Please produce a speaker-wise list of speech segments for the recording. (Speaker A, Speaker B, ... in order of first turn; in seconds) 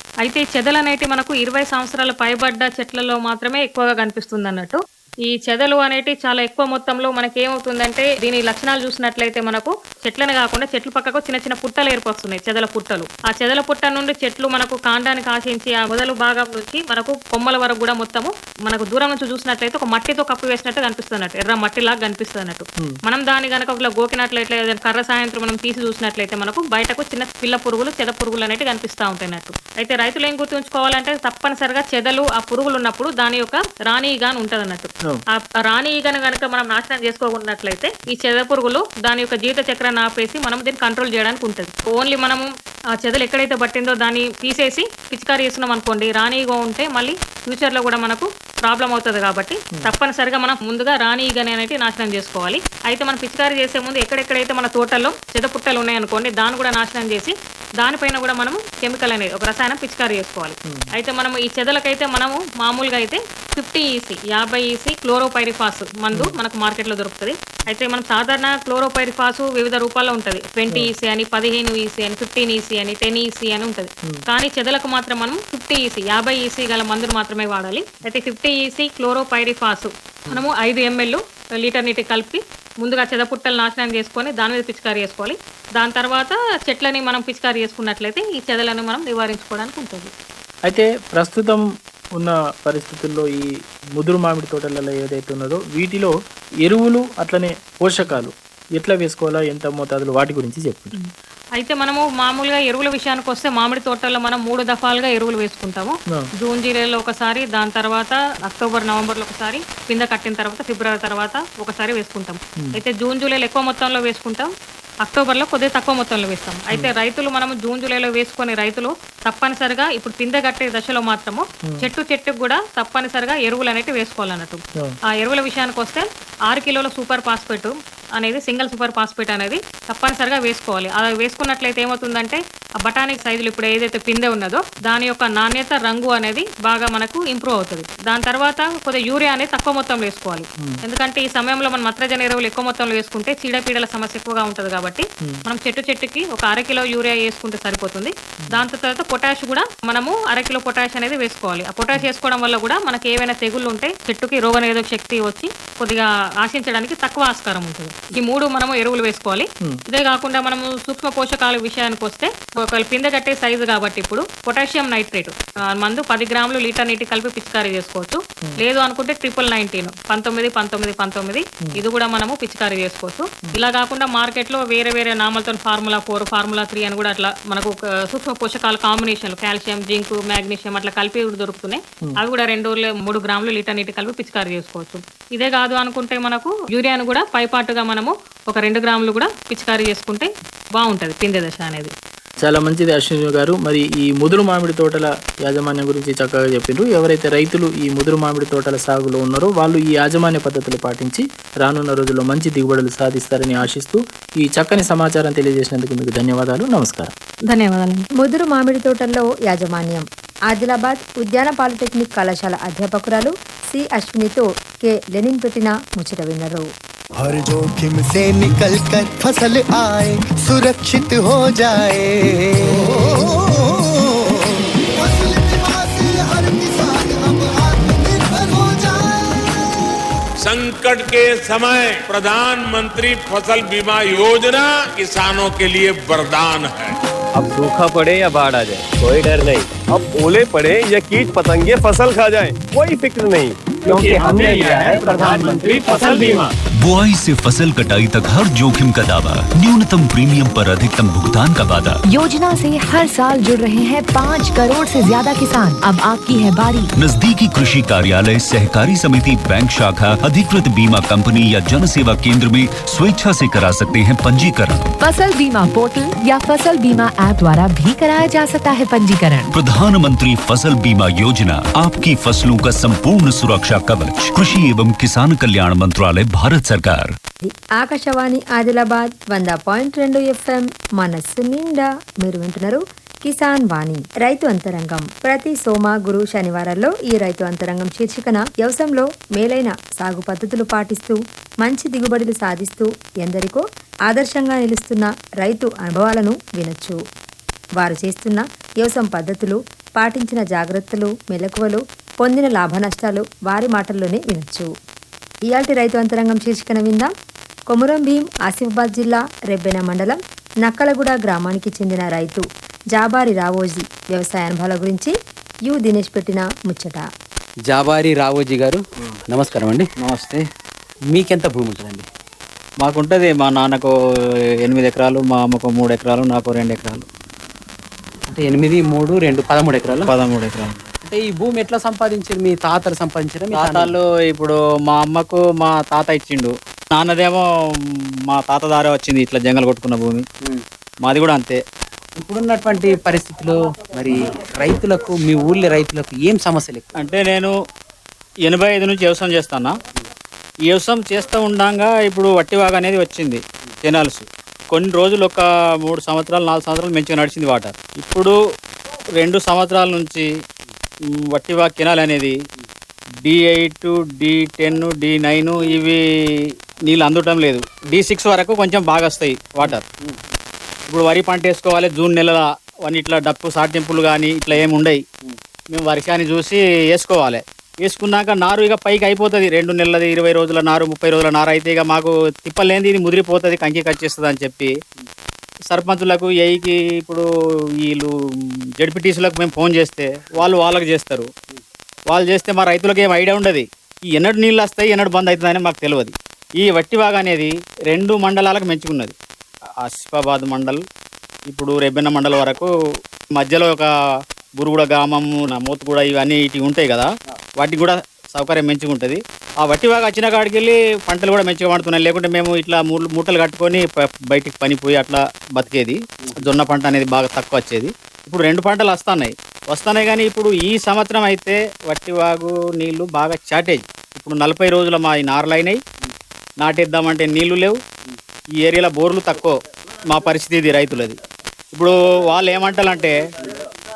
Speaker A: 0.2-90.1, 100.9-114.5, 115.0-124.6, 125.2-191.9, 207.5-208.1
Speaker B: 90.7-91.6, 92.2-96.1, 96.6-100.9, 192.4-207.1
Speaker C: 208.2-216.7, 277.4-297.0, 297.8-304.7, 305.5-307.1, 307.7-315.1, 315.7-317.0
Speaker D: 217.2-229.6
Speaker E: 230.4-236.9, 243.8-246.5
Speaker F: 237.4-246.4
Speaker G: 246.8-251.9, 257.0-264.9, 269.5-277.1
Speaker H: 252.1-256.9, 265.0-269.5
Speaker I: 317.7-319.9, 321.1-322.1, 328.3-330.1, 331.0-333.9, 342.2-346.9
Speaker J: 320.0-320.4, 322.8-323.9, 324.6-327.1, 330.1-330.8, 333.5-340.2, 341.0-341.6, 347.0-347.5, 348.4-349.8, 350.6-358.4, 359.2-360.3, 361.3-362.4, 363.2-369.8, 370.9-375.0, 375.7-384.7, 385.7-387.2, 387.8-388.1, 388.8-391.3, 392.1-399.1, 399.8-400.8, 401.5-402.7, 403.4-403.9, 404.6-425.8, 426.6-427.8, 428.6-429.6, 430.1-431.2, 431.7-433.2